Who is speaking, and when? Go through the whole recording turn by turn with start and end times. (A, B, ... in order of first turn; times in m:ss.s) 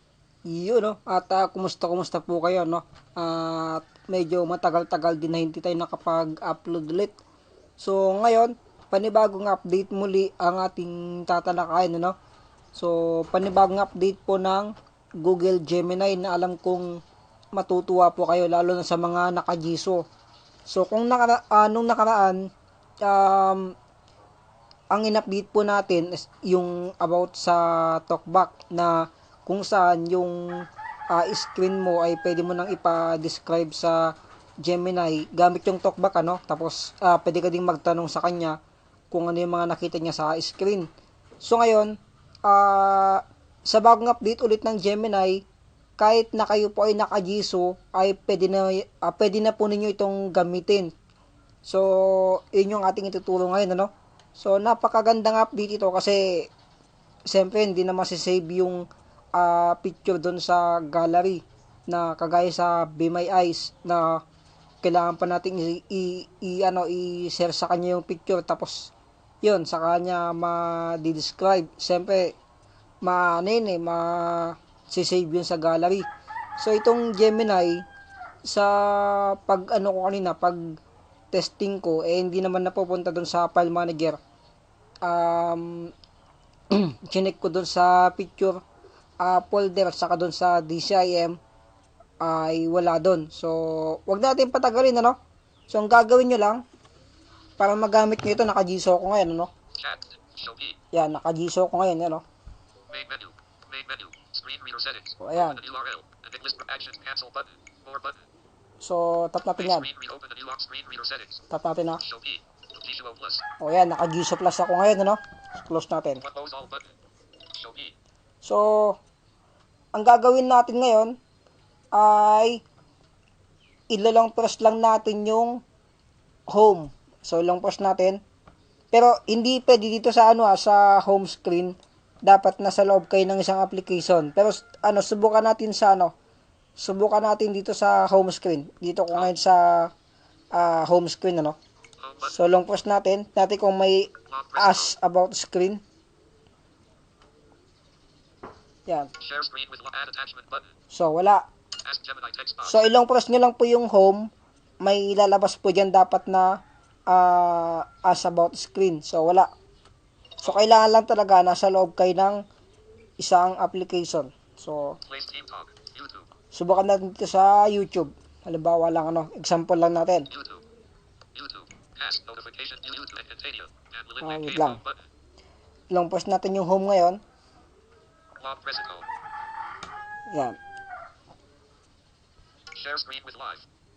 0:00.5-0:07.2 A
0:07.8-0:12.2 A
0:12.8-0:16.9 A
0:17.5-0:20.0 A
0:20.7-0:22.4 A
0:23.0-0:23.7 A
0:24.9-0:30.4 A
0:31.1-0:38.6 A
0:39.1-0:40.9 A
0:41.4-0:41.9 A
0:42.5-0:45.4 A
0:46.0-0:50.9 A
0:51.6-0:56.3 A
0:57.3-0:58.8 A
0:59.4-1:04.2 A
1:04.8-1:08.9 A
1:09.4-1:12.3 A
1:13.0-1:16.0 A
1:16.6-1:17.8 A
1:18.4-1:20.6 A
1:21.3-1:24.2 A
1:25.0-1:25.9 A
1:26.7-1:28.6 A
1:29.2-1:31.4 A
1:32.2-1:35.2 A
1:35.7-1:36.6 A
1:37.6-1:39.5 A
1:39.8-1:40.8 B
1:40.9-1:42.2 A
1:42.9-1:48.2 B
1:45.2-1:45.6 A
1:48.8-1:49.9 A
1:49.6-1:51.4 B
1:51.5-1:52.0 A
1:52.1-1:53.4 B
1:53.6-1:56.2 A
1:56.3-1:56.9 B
1:57.6-1:57.9 B
1:58.4-1:59.0 A
1:59.9-2:01.2 A
2:01.9-2:02.6 A
2:03.9-2:05.6 A
2:06.5-2:08.2 A
2:08.9-2:16.1 A
2:16.8-2:19.9 A
2:20.5-2:21.6 A
2:22.2-2:25.8 A
2:24.3-2:24.7 B
2:29.2-2:30.6 B
2:30.9-2:31.4 A
2:31.8-2:32.7 B
2:32.6-2:34.3 A
2:34.8-2:36.5 A
2:37.1-2:39.5 A
2:40.4-2:42.4 A
2:43.2-2:45.0 A
2:45.1-2:46.2 B
2:46.5-2:50.3 A
2:50.4-2:50.6 B
2:51.4-2:54.8 B
2:54.2-2:54.8 A
2:55.9-2:57.2 A
2:58.4-2:59.1 B
3:00.3-3:00.6 A
3:02.7-3:03.6 B